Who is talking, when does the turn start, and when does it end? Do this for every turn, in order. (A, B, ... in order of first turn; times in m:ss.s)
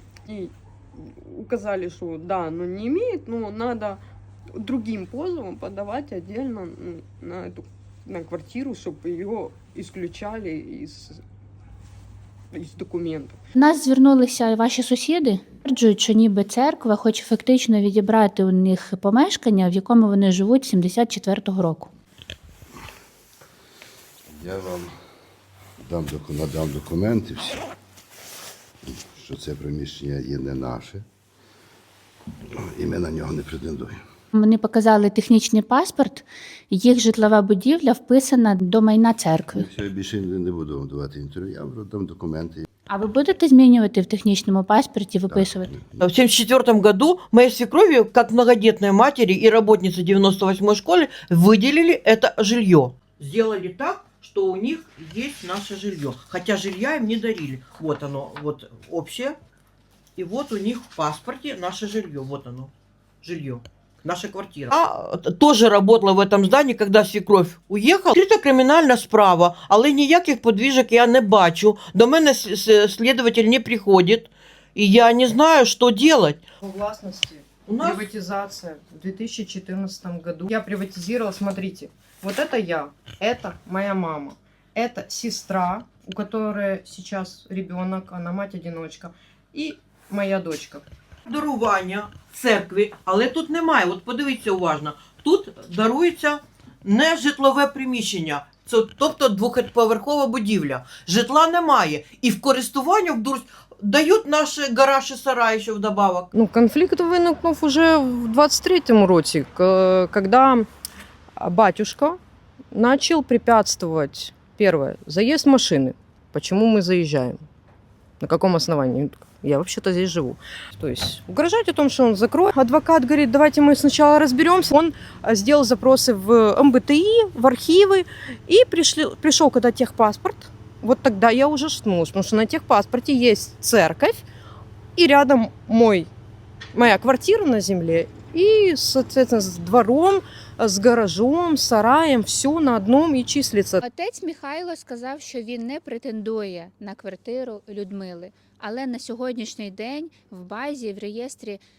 0:00.3-0:04.0 A
0:04.5-0:11.2 A
0:12.5-0:13.4 A
0:13.6-0:21.9 B
0:24.4-0:24.9 C
0:25.8-0:27.6 C
0:28.9-0:31.0 C
0:32.6-0:34.0 C
0:34.3-0:39.7 B
0:39.5-0:42.6 C
0:42.9-0:45.7 B
0:45.3-0:46.0 C
0:46.0-0:59.4 D
1:00.2-1:02.7 D
1:03.2-1:16.4 D
1:16.6-1:30.8 E
1:17.7-1:18.1 D
1:31.3-1:46.3 D
1:46.3-1:50.7 E
1:51.4-1:52.2 E
1:52.7-1:57.4 E
1:58.2-2:14.2 E
2:15.0-2:16.1 E
2:16.7-2:23.8 E
2:23.8-2:31.6 B